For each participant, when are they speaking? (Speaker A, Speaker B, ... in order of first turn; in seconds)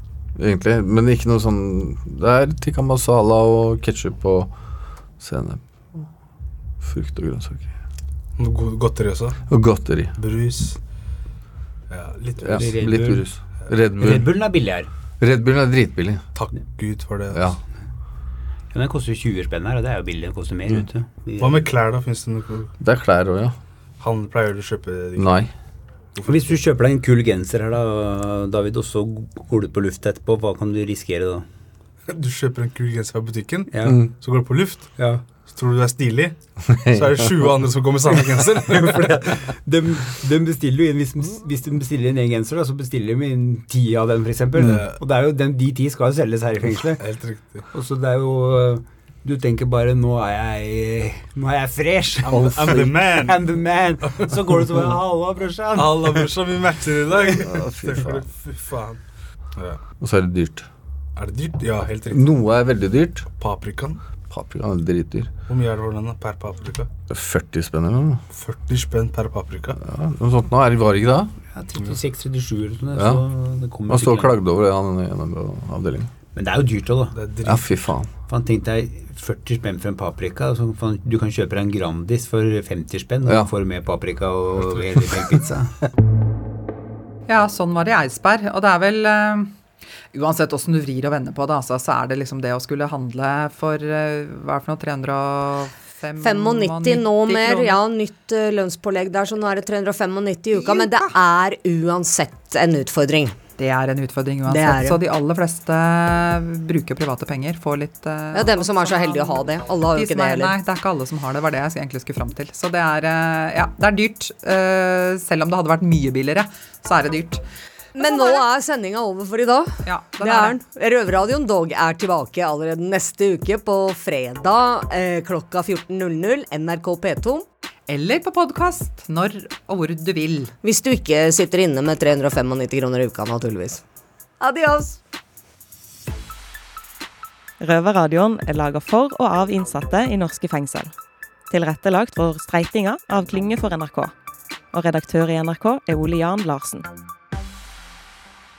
Speaker A: 0.3-4.5, 5.2-6.0, 6.8-7.7, 9.5-10.2, 12.4-14.2, 15.2-16.2, 17.3-17.6, 22.8-23.6, 25.1-25.5, 33.8-34.1, 36.7-37.3, 57.5-58.2, 60.0-60.6, 62.1-63.3, 64.3-65.3, 67.1-68.2, 69.8-71.3, 72.9-73.2, 73.9-76.1, 77.4-78.1
Speaker B: 8.4-9.4, 10.2-10.8, 11.9-12.7, 16.3-17.5, 21.4-22.7, 24.0-25.4, 26.1-26.6, 32.1-39.5, 44.5-45.0, 47.0-47.7, 52.2-54.3, 55.8-59.0, 59.5-59.8, 61.1-62.3, 63.3-64.0, 65.5-66.9, 68.3-69.8, 77.1-77.9
Speaker C: 12.5-13.3, 14.0-14.9, 18.7-21.7, 26.2-31.4, 33.7-34.1, 34.9-35.3, 38.1-47.0, 47.7-56.3, 71.5-74.3, 76.3-77.2, 78.2-85.7
Speaker D: 87.3-89.5, 90.1-97.8, 100.5-101.2, 103.6-117.4, 118.0-118.4, 119.8-120.6, 127.9-130.5
Speaker E: 96.2-103.3, 104.4-105.0, 108.3-110.5, 117.9-127.5, 130.6-133.8, 134.4-135.0
Speaker F: 137.6-140.9, 141.5-144.1, 144.7-146.9